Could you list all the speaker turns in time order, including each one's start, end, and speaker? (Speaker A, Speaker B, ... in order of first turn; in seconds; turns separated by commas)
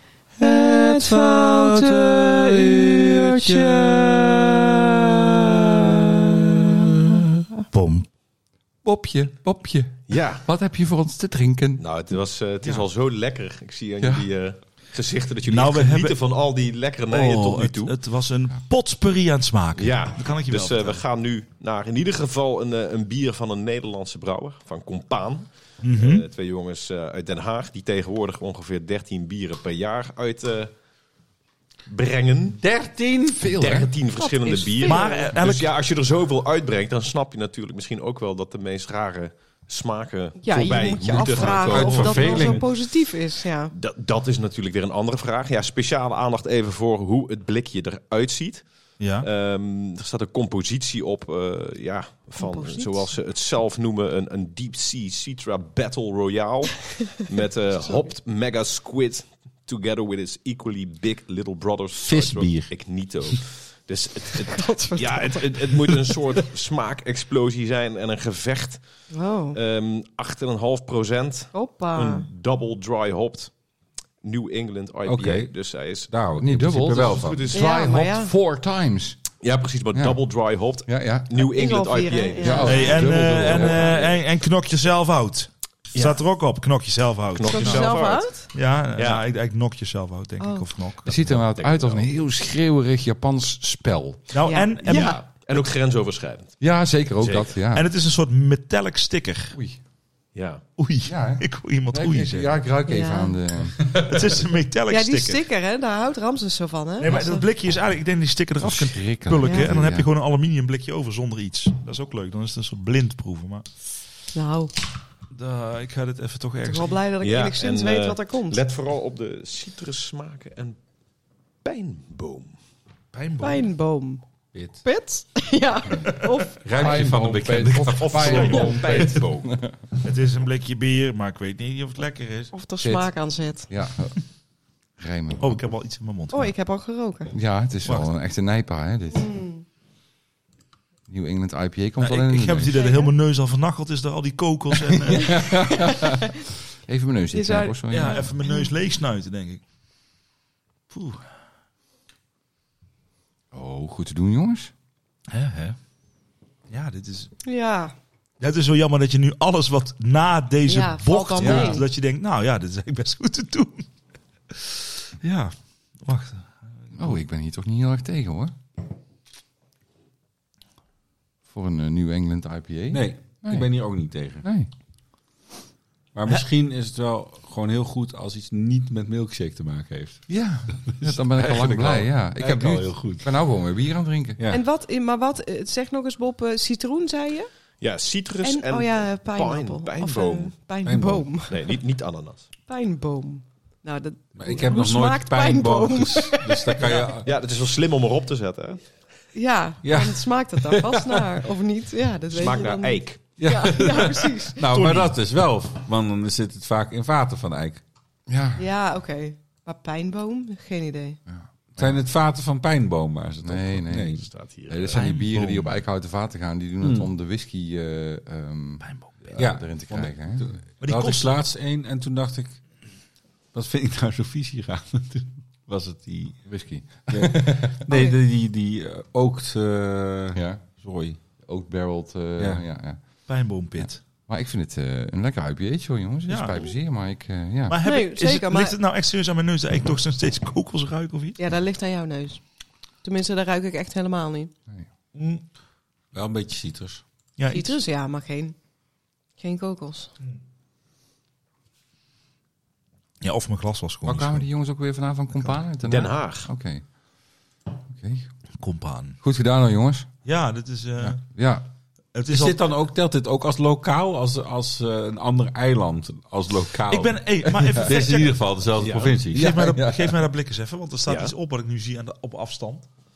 Speaker A: 0.4-4.2, Speaker B: 0.7-4.1, Speaker C: 7.7-8.1, Speaker D: 8.8-11.8, Speaker E: 10.1-10.4, Speaker E: 11.8-18.0, Speaker D: 14.0-14.3, Speaker C: 15.5-16.2, Speaker C: 17.1-21.0, Speaker E: 19.8-30.7, Speaker C: 25.8-26.2, Speaker E: 31.9-32.6, Speaker B: 32.6-33.6, Speaker D: 33.4-33.9, Speaker E: 33.5-42.6, Speaker A: 34.1-35.3, Speaker C: 34.8-35.7, Speaker A: 40.4-43.7, Speaker C: 41.1-42.5, Speaker B: 41.5-42.7, Speaker E: 43.7-48.7, Speaker C: 49.0-49.3, Speaker E: 49.2-68.8, Speaker A: 52.4-53.1, Speaker B: 62.0-62.7, Speaker A: 64.5-66.2, Speaker A: 69.1-69.6, Speaker E: 69.5-73.5, Speaker A: 71.5-72.2, Speaker E: 74.2-76.1, Speaker B: 75.1-75.5, Speaker B: 76.1-77.4, Speaker D: 76.4-79.2, Speaker E: 77.0-77.7, Speaker A: 77.5-78.3, Speaker E: 79.4-84.2, Speaker D: 79.9-80.2, Speaker D: 80.9-81.3, Speaker A: 81.4-83.1, Speaker D: 82.4-83.9, Speaker C: 82.7-88.0, Speaker E: 85.9-86.2, Speaker E: 87.3-88.3, Speaker A: 87.5-88.5, Speaker C: 88.5-91.1, Speaker E: 89.0-89.2, Speaker A: 90.4-90.7, Speaker D: 91.0-94.3, Speaker E: 91.1-92.1, Speaker C: 94.3-95.7, Speaker A: 94.5-95.2, Speaker E: 94.9-96.6, Speaker D: 96.6-97.9, Speaker E: 97.2-97.5, Speaker C: 97.7-99.6, Speaker E: 100.3-100.7, Speaker C: 100.8-102.5, Speaker D: 101.1-103.9, Speaker A: 102.9-103.4, Speaker C: 104.0-105.4, Speaker A: 104.9-107.5, Speaker C: 107.0-113.7, Speaker D: 108.6-110.1, Speaker A: 109.4-109.7, Speaker A: 114.3-114.7, Speaker C: 115.3-117.0, Speaker A: 116.7-118.6, Speaker E: 117.2-120.8, Speaker E: 121.6-122.5, Speaker C: 123.1-123.7, Speaker A: 123.4-124.2, Speaker B: 124.5-124.8, Speaker A: 124.8-126.6, Speaker B: 126.6-129.2, Speaker D: 126.7-129.8, Speaker C: 128.0-129.1, Speaker E: 128.2-129.5, Speaker C: 130.0-132.5, Speaker A: 132.5-133.7, Speaker D: 132.8-134.2, Speaker D: 135.0-135.7, Speaker C: 135.4-136.5, Speaker A: 136.3-137.3, Speaker D: 137.3-139.3, Speaker C: 137.8-138.1, Speaker A: 139.1-139.6, Speaker D: 141.1-142.8, Speaker C: 142.0-145.4, Speaker A: 142.8-143.1, Speaker D: 144.9-146.2, Speaker A: 145.2-146.3, Speaker D: 146.9-148.3, Speaker A: 147.3-148.7, Speaker C: 147.9-149.6, Speaker C: 150.9-151.2, Speaker D: 153.5-154.7, Speaker C: 155.3-155.8, Speaker C: 156.7-157.3, Speaker A: 157.4-157.9, Speaker C: 158.4-163.8, Speaker A: 160.7-161.9, Speaker D: 161.4-161.8, Speaker C: 165.2-167.1, Speaker D: 167.0-168.5, Speaker D: 171.5-173.7, Speaker B: 172.9-174.4, Speaker D: 174.4-174.7, Speaker B: 176.2-180.3, Speaker D: 180.3-184.4, Speaker B: 180.9-183.3, Speaker A: 184.5-187.5, Speaker E: 187.8-190.5, Speaker A: 188.4-191.8, Speaker B: 190.8-191.3, Speaker E: 191.5-192.5, Speaker A: 192.7-196.9, Speaker B: 194.4-197.3, Speaker E: 197.2-198.8, Speaker A: 199.3-204.6, Speaker B: 199.8-201.3, Speaker E: 202.3-203.2, Speaker B: 203.4-207.8, Speaker C: 204.7-205.1, Speaker D: 208.3-208.6, Speaker A: 208.6-211.2, Speaker D: 211.3-212.0, Speaker B: 211.8-214.3, Speaker D: 213.4-220.4, Speaker E: 214.1-215.1, Speaker C: 214.9-215.8, Speaker B: 216.8-217.1, Speaker C: 218.8-219.4, Speaker B: 219.4-222.6, Speaker C: 220.8-221.3, Speaker B: 223.5-226.5, Speaker D: 226.5-227.8, Speaker B: 227.1-231.2, Speaker A: 227.9-228.2, Speaker D: 230.3-230.7, Speaker D: 231.4-233.0, Speaker B: 232.4-232.6, Speaker C: 233.3-234.0, Speaker D: 233.8-237.8, Speaker C: 236.3-236.7, Speaker C: 237.7-241.4, Speaker A: 237.8-238.8, Speaker A: 241.4-242.4, Speaker A: 243.0-244.5, Speaker C: 245.2-245.4, Speaker B: 246.1-247.0, Speaker C: 247.4-247.8, Speaker A: 247.5-248.6, Speaker A: 249.4-250.1, Speaker C: 253.2-254.4, Speaker D: 254.1-256.8, Speaker E: 255.8-256.5, Speaker D: 257.9-258.3, Speaker C: 258.6-259.2, Speaker D: 259.2-260.1, Speaker C: 260.2-261.2, Speaker D: 261.0-261.7, Speaker C: 262.1-262.6, Speaker B: 262.3-269.7, Speaker C: 266.9-268.5, Speaker D: 267.6-267.9, Speaker E: 268.8-269.3, Speaker C: 269.3-272.9, Speaker D: 269.4-270.2, Speaker E: 271.1-271.3